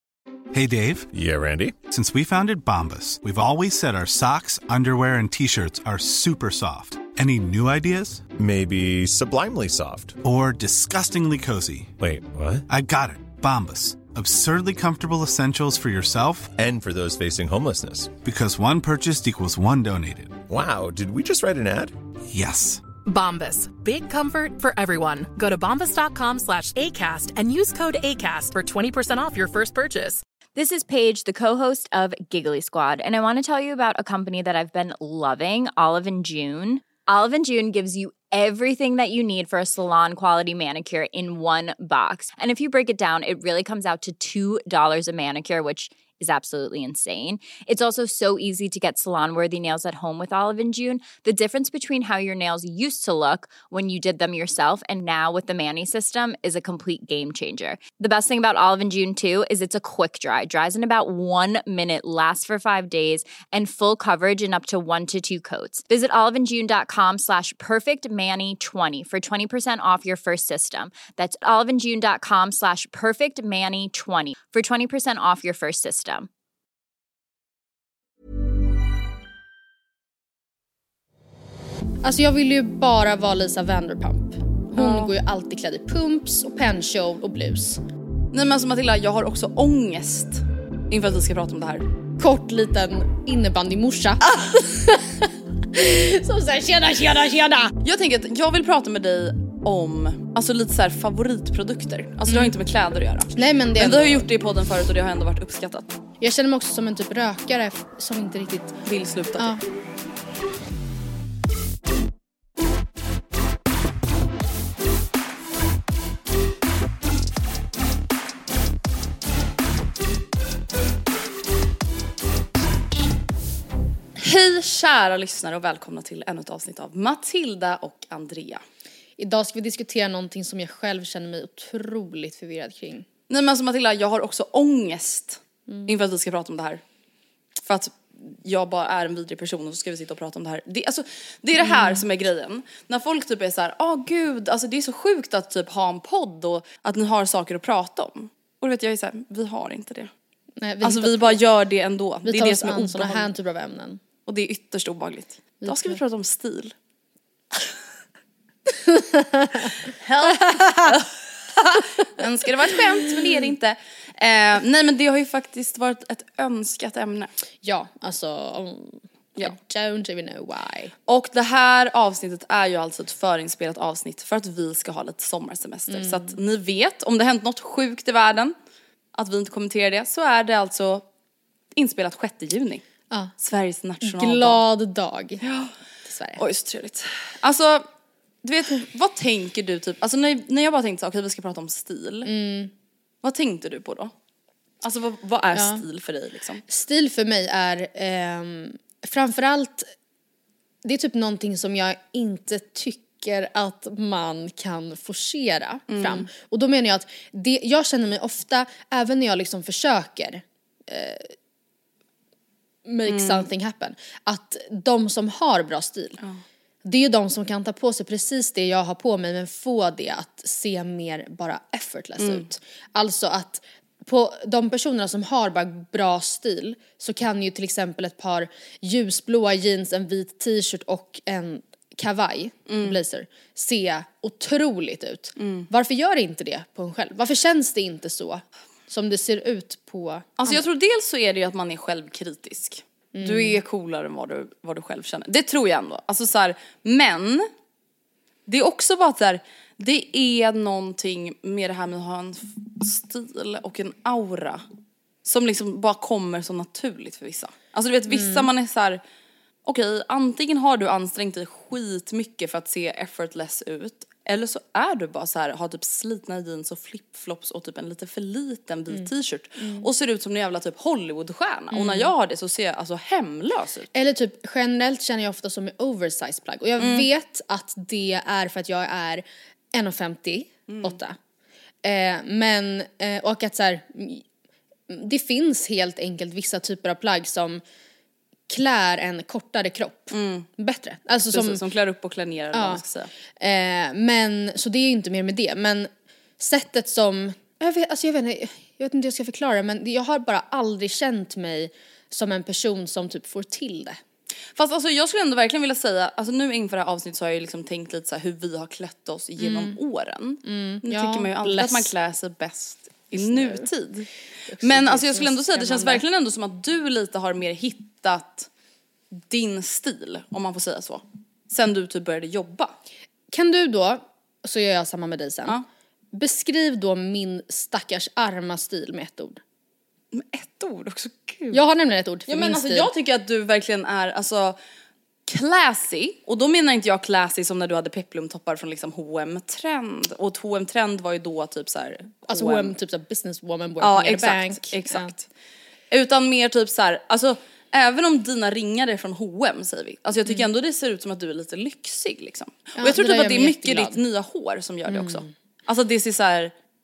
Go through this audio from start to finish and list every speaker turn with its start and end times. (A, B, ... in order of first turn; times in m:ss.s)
0:00.5-0:01.1 A
0:01.1-0:01.8 B
0:01.9-0:08.2 A
0:08.4-0:10.2 B
0:10.2-0:11.9 A
0:12.0-0:12.7 B
0:12.7-0:16.6 A
0:16.6-0:18.2 B
0:18.2-0:20.4 A
0:20.5-0:22.0 B
0:22.3-0:22.8 A
0:23.0-0:30.2 C
0:30.6-1:16.3 D
1:22.0-1:27.8 E
1:24.7-1:25.1 F
1:28.3-1:31.9 F
1:32.2-1:37.7 E
1:37.8-1:46.0 F
1:42.3-1:42.6 E
1:43.3-1:44.3 E
1:46.2-1:48.8 E
1:48.8-1:49.5 F
2:04.2-2:08.6 F
2:09.2-2:13.1 E
2:13.3-2:16.8 F
2:15.7-2:15.9 E
2:17.6-2:30.1 F
2:21.6-2:22.0 E
2:30.6-2:31.4 E
2:30.8-2:33.3 F
2:32.2-2:34.0 E
2:34.2-2:36.7 F
2:35.6-2:36.0 E
2:38.8-2:39.7 E
2:40.0-2:47.3 F
2:40.2-2:41.0 E
2:43.2-2:43.5 E
2:47.6-2:50.9 E
2:51.1-2:58.6 F
2:55.9-2:56.3 E
2:59.1-3:01.0 F
3:01.8-3:02.8 F
3:03.4-3:04.6 F
3:04.0-3:05.4 E
3:05.4-3:05.7 F
3:06.1-3:06.4 E
3:06.4-3:07.9 F
3:08.4-3:12.3 F
3:12.2-3:12.7 E
3:13.2-3:14.1 F
3:14.8-3:16.6 F
3:15.5-3:15.8 E
3:16.7-3:19.9 E
3:20.8-3:31.3 E
3:25.9-3:26.3 F
3:32.9-3:36.2 E
3:33.1-3:33.5 F
3:36.8-4:00.6 E
3:42.2-3:42.4 F
3:52.7-3:53.0 F
3:55.4-3:55.7 F
4:00.4-4:07.5 F
4:03.1-4:03.6 E
4:08.5-4:14.6 F
4:15.2-4:19.0 F
4:18.1-4:18.5 E
4:19.6-4:33.9 F
4:29.6-4:29.9 E
4:31.7-4:32.1 E
4:33.9-4:41.2 E
4:36.8-4:37.1 F
4:40.7-4:41.0 F
4:41.8-4:44.2 E
4:44.9-4:47.6 E
4:48.5-4:51.6 E
4:50.1-4:50.5 F
4:51.3-4:53.1 F
4:52.5-4:52.8 E
4:53.4-5:04.0 E
5:04.6-5:18.5 F
5:09.4-5:09.8 E
5:10.4-5:11.9 E
5:13.1-5:13.7 E
5:14.5-5:16.0 E
5:19.2-5:22.8 F
5:23.3-5:25.6 E
5:26.1-5:29.4 E
5:30.1-5:31.6 F
5:31.5-5:32.9 E
5:32.3-5:34.6 F
5:35.3-5:42.7 F
5:42.3-5:45.1 E
5:43.8-5:45.3 F
5:45.9-5:56.5 F
5:52.8-5:54.0 E
5:54.8-5:55.3 E